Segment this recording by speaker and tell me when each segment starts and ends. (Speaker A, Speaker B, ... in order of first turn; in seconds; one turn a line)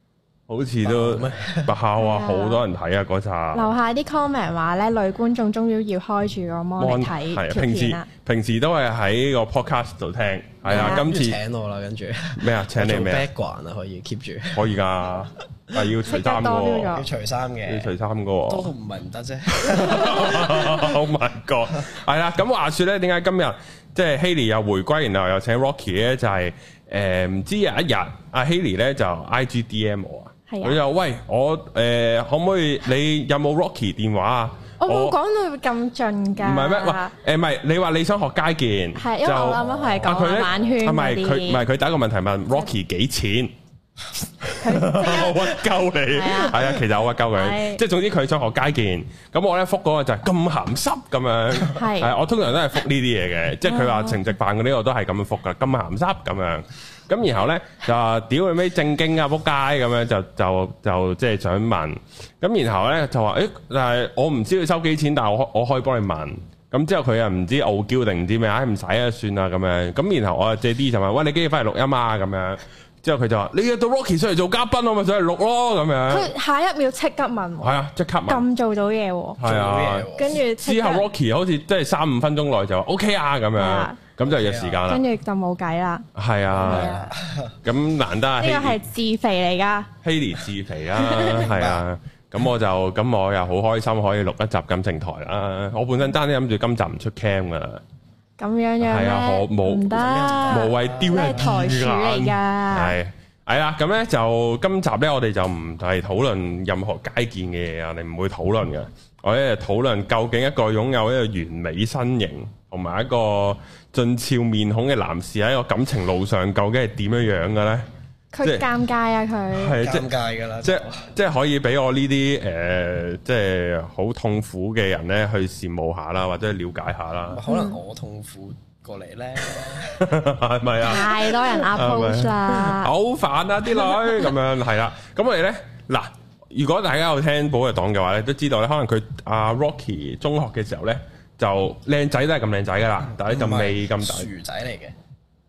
Speaker A: 0.5-3.7
Speaker B: 0.8-1.7
Speaker C: 2.0-2.6
Speaker C: 3.5-8.1
Speaker A: 6.8-11.4
Speaker B: 10.6-14.7
Speaker C: 10.7-11.0
Speaker A: 12.4-13.3
Speaker A: 14.5-16.9
Speaker C: 16.1-17.1
Speaker B: 16.9-17.9
Speaker A: 17.7-18.7
Speaker B: 18.5-21.0
Speaker A: 19.5-35.1
Speaker C: 30.5-30.8
Speaker C: 34.8-37.1
Speaker A: 36.4-43.5
Speaker C: 39.0-41.6
Speaker B: 39.6-40.7
Speaker A: 44.2-76.3
Speaker C: 44.6-46.8
Speaker C: 47.3-47.8
Speaker C: 51.7-52.1
Speaker C: 53.6-54.2
Speaker C: 76.1-79.4
Speaker A: 77.6-78.4
Speaker A: 79.4-85.0
Speaker B: 79.4-80.4
Speaker C: 80.1-81.0
Speaker C: 83.6-84.0
Speaker B: 84.2-84.8
Speaker C: 84.9-87.1
Speaker A: 86.1-87.0
Speaker B: 86.5-87.5
Speaker A: 87.6-88.8
Speaker C: 88.4-89.9
Speaker A: 90.0-97.8
Speaker C: 91.1-91.5
Speaker B: 91.3-91.8
Speaker C: 98.4-103.0
Speaker A: 98.8-117.9
Speaker B: 99.9-101.6
Speaker C: 118.3-119.8
Speaker A: 119.5-120.1
Speaker B: 119.8-121.1
Speaker A: 120.6-127.4
Speaker B: 127.3-130.1
Speaker C: 127.5-127.8
Speaker A: 129.6-144.3
Speaker C: 130.8-132.9
Speaker C: 133.7-134.3
Speaker B: 143.2-144.9